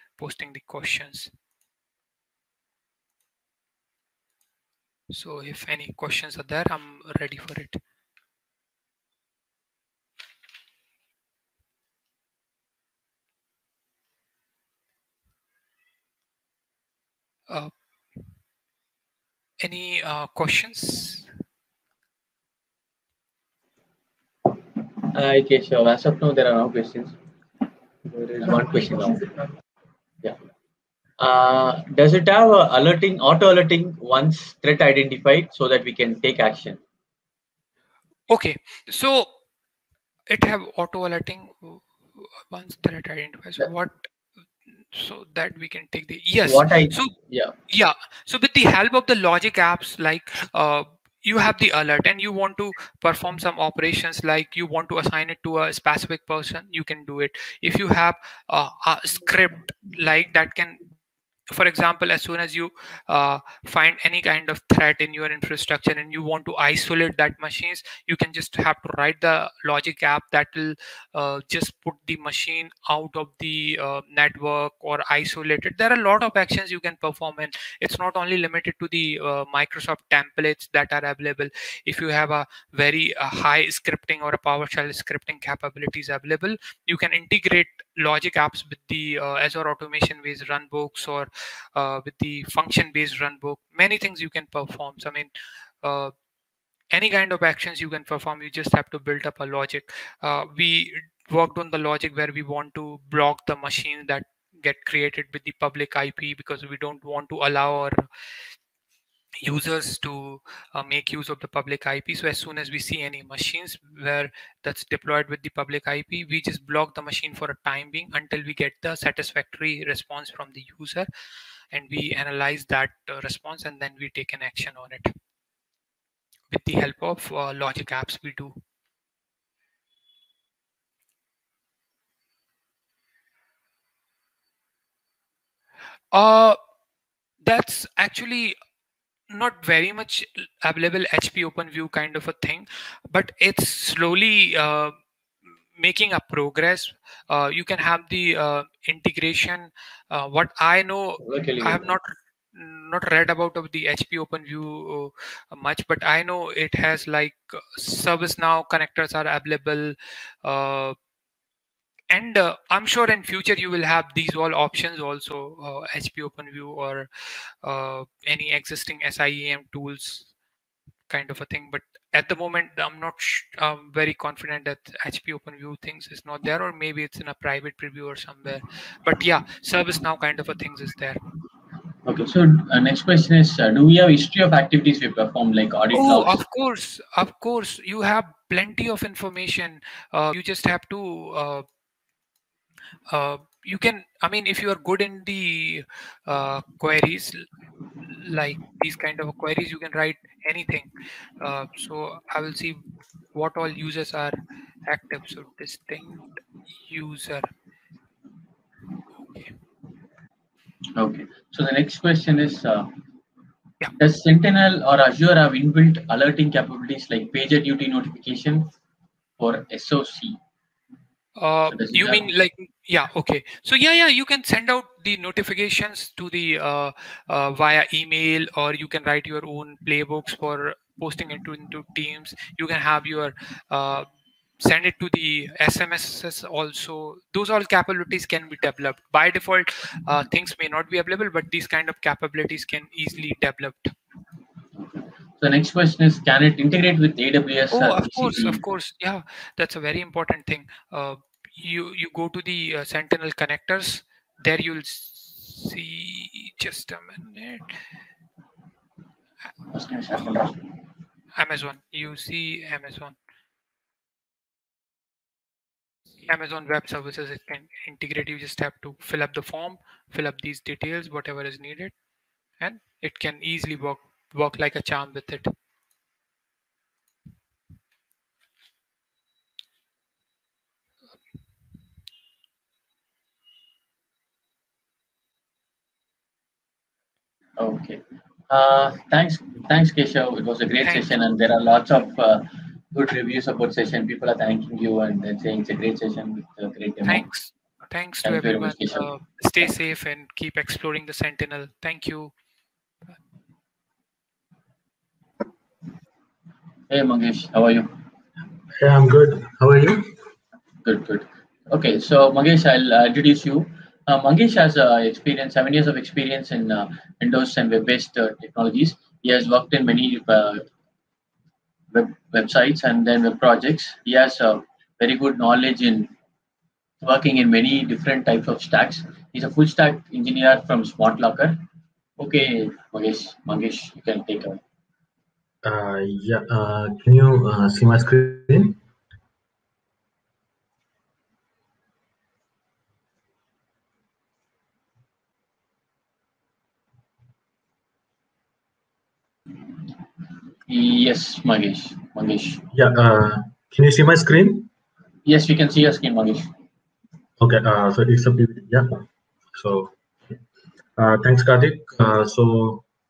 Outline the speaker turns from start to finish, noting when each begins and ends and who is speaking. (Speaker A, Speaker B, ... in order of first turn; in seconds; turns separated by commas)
Speaker A: 0.2-1.3, Speaker A: 5.1-7.8, Speaker A: 17.5-17.7, Speaker A: 19.6-21.3, Speaker B: 25.1-27.1, Speaker B: 28.1-29.4, Speaker B: 31.2-36.8, Speaker A: 38.3-39.3, Speaker A: 40.3-44.1, Speaker A: 44.7-47.1, Speaker B: 46.4-47.5, Speaker A: 47.7-60.9, Speaker A: 61.5-96.1, Speaker A: 96.9-108.1, Speaker A: 109.4-121.1, Speaker A: 121.7-125.1, Speaker A: 126.5-128.6, Speaker A: 136.1-136.6, Speaker A: 137.4-138.6, Speaker A: 139.3-144.9, Speaker A: 145.7-160.9, Speaker B: 151.2-151.9, Speaker A: 162.1-170.3, Speaker A: 171.1-181.2, Speaker B: 182.1-186.4, Speaker A: 185.9-191.7, Speaker A: 193.1-197.4, Speaker A: 198.0-202.8, Speaker A: 203.3-204.3, Speaker A: 204.8-207.5, Speaker A: 209.2-209.5, Speaker B: 210.9-212.9, Speaker B: 213.9-218.7, Speaker B: 219.4-220.4, Speaker A: 221.4-234.1, Speaker B: 221.7-222.2, Speaker A: 234.6-243.9, Speaker B: 244.8-248.6, Speaker A: 247.7-257.8, Speaker B: 259.7-260.7, Speaker A: 261.3-263.1, Speaker A: 266.2-271.9, Speaker A: 272.6-275.5, Speaker B: 287.6-297.3, Speaker A: 290.8-291.3, Speaker A: 297.0-302.3, Speaker B: 298.2-299.1, Speaker B: 306.9-307.9, Speaker C: 308.8-310.1, Speaker B: 310.8-320.7, Speaker B: 321.9-326.1, Speaker B: 327.0-331.6, Speaker B: 332.2-334.6, Speaker C: 335.6-338.8, Speaker B: 350.7-352.6, Speaker C: 352.7-354.7, Speaker B: 355.2-356.5, Speaker C: 357.4-360.4, Speaker C: 361.0-362.8